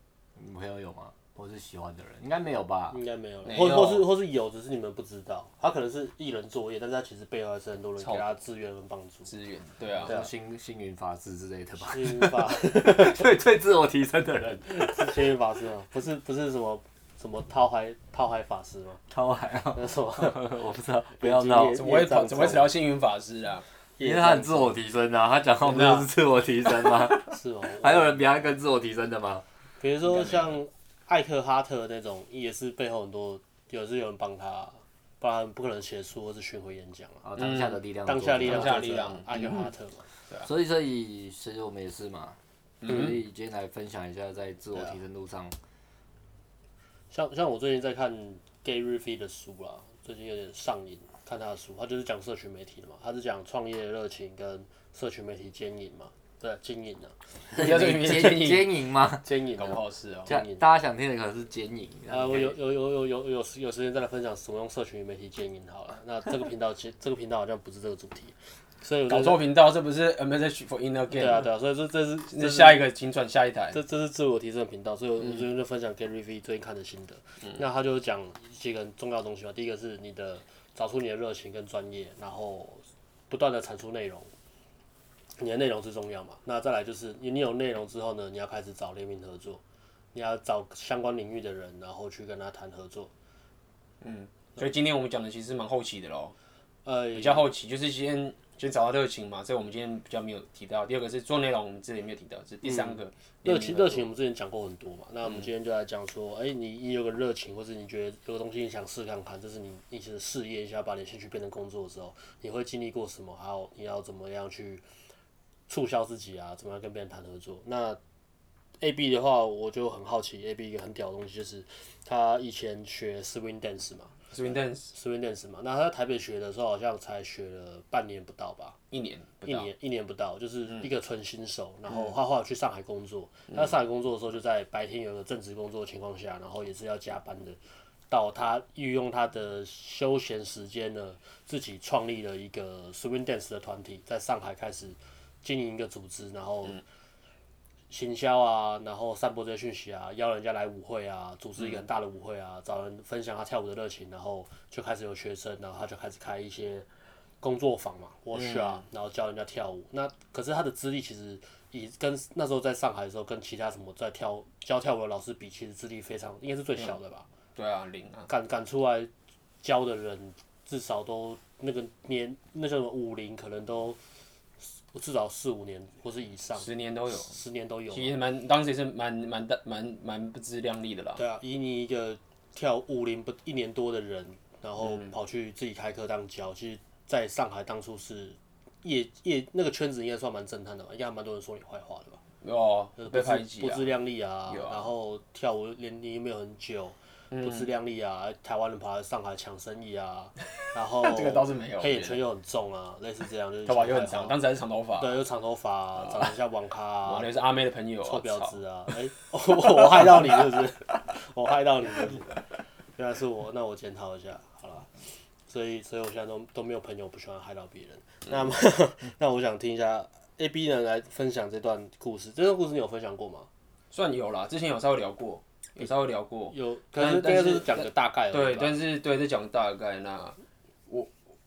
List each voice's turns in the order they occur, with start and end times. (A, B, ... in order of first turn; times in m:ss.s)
0:00.4-0:03.0 A
0:02.9-0:09.3 B
0:03.4-0:04.1 C
0:08.0-0:08.2 C
0:09.3-0:10.2 C
0:10.0-0:10.3 B
0:10.0-0:15.2 A
0:11.8-0:13.3 B
0:14.7-0:19.0 B
0:19.1-0:21.8 A
0:19.7-0:20.5 B
0:21.2-0:22.7 B
0:21.8-0:23.6 C
0:24.0-0:24.8 B
0:24.0-0:29.4 A
0:25.6-0:26.1 C
0:27.2-0:28.2 B
0:29.8-0:37.2 B
0:30.1-0:30.4 A
0:37.2-0:38.8 A
0:37.4-0:37.8 C
0:38.1-0:40.1 B
0:38.4-0:39.7 C
0:40.4-0:45.6 A
0:42.8-0:43.2 C
0:47.1-0:57.7 B
0:57.5-0:58.7 C
0:57.5-0:59.3 A
0:59.2-1:00.6 B
0:59.6-1:00.4 C
1:00.3-1:02.6 A
1:02.1-1:09.4 B
1:09.1-1:11.5 C
1:11.1-1:12.8 B
1:12.3-1:13.8 C
1:13.7-1:24.3 B
1:25.4-1:29.6 B
1:30.1-1:33.1 B
1:34.0-1:36.4 C
1:36.8-1:37.5 B
1:37.1-1:44.0 C
1:42.6-1:54.8 B
1:55.7-1:58.0 B
1:58.8-2:08.8 B
2:04.3-2:04.9 C
2:08.9-2:09.7 C
2:09.4-2:26.8 B
2:27.9-2:36.9 B
2:37.4-2:47.3 B
2:38.4-2:38.8 C
2:47.6-2:48.3 C
2:48.3-2:49.1 B
2:49.6-2:54.0 B
2:54.6-2:56.7 B
2:56.6-2:57.3 C
2:57.2-2:58.2 B
2:57.9-3:01.2 C
3:01.2-3:12.2 B
3:04.8-3:05.1 C
3:12.4-3:13.9 C
3:13.0-3:24.4 B
3:14.5-3:14.9 C
3:17.3-3:17.7 C
3:21.0-3:22.2 C
3:23.7-3:25.2 C
3:25.0-3:27.3 B
3:26.0-3:26.3 C
3:27.0-3:28.6 C
3:28.0-3:32.4 B
3:29.6-3:31.0 C
3:33.0-3:35.0 B
3:35.5-3:43.5 B
3:43.9-3:51.1 C
3:46.5-3:48.8 B